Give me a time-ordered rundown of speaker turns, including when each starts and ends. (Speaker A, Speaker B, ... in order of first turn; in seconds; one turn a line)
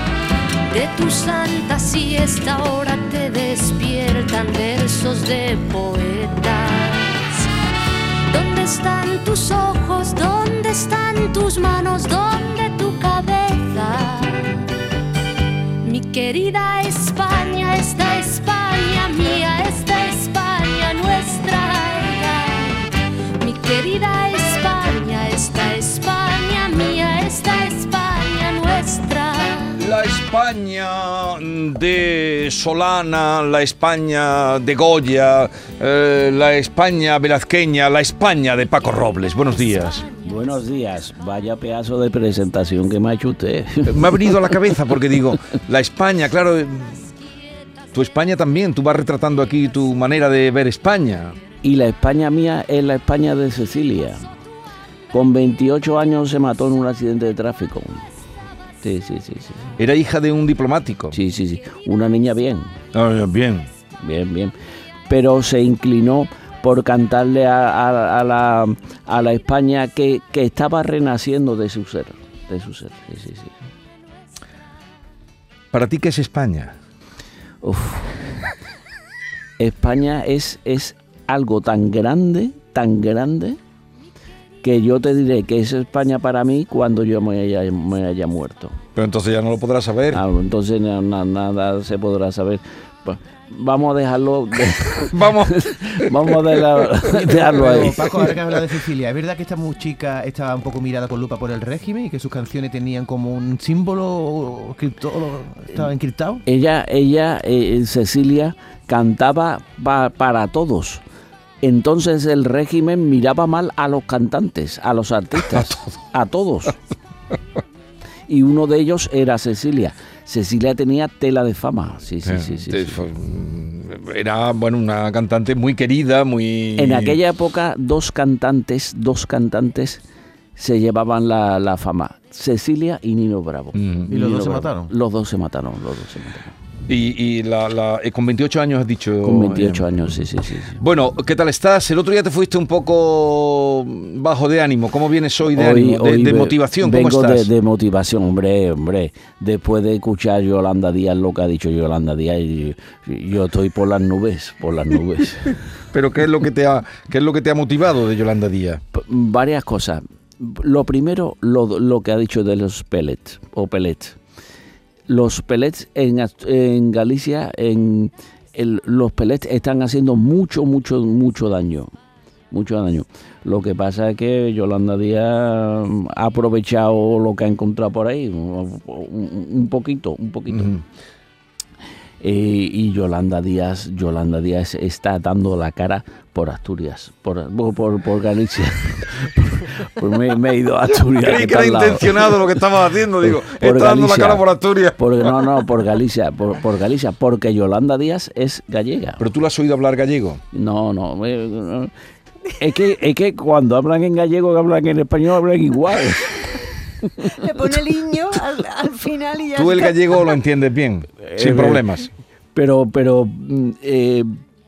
Speaker A: 0.7-7.5
Speaker A: 8.3-14.7
Speaker A: 15.8-22.9
Speaker A: 23.4-29.7
Speaker B: 29.8-40.1
Speaker C: 40.2-44.2
Speaker B: 43.9-47.1
Speaker B: 47.9-51.4
Speaker C: 51.6-54.2
Speaker C: 55.1-58.0
Speaker C: 58.8-59.7
Speaker B: 59.8-61.2
Speaker C: 61.1-62.8
Speaker B: 62.9-63.7
Speaker C: 64.0-64.5
Speaker C: 65.1-73.6
Speaker B: 75.7-76.8
Speaker C: 77.6-78.2
Speaker C: 79.6-83.6
Speaker C: 84.6-88.8
Speaker B: 89.0-90.2
Speaker C: 90.1-98.3
Speaker B: 95.1-96.1
Speaker D: 97.0-106.4
Speaker C: 106.5-111.0
Speaker C: 111.6-116.8
Speaker C: 118.3-123.0
Speaker B: 122.3-127.2
Speaker C: 126.8-130.0
Speaker C: 130.6-136.5
Speaker B: 133.8-134.1
Speaker D: 134.1-134.9
Speaker B: 136.9-140.2
Speaker C: 139.2-140.8
Speaker B: 140.8-147.5
Speaker C: 145.5-155.6
Speaker B: 155.9-158.8
Speaker C: 158.9-164.2
Speaker C: 165.1-171.9
Speaker C: 172.5-180.8
Speaker B: 180.5-180.8
Speaker C: 182.2-192.5
Speaker B: 191.1-195.0
Speaker C: 193.2-194.4
Speaker C: 195.0-199.2
Speaker B: 199.2-200.4
Speaker C: 200.5-201.9
Speaker C: 202.6-207.3
Speaker E: 207.4-210.2
Speaker B: 209.6-212.1
Speaker C: 211.3-212.0
Speaker C: 212.5-214.3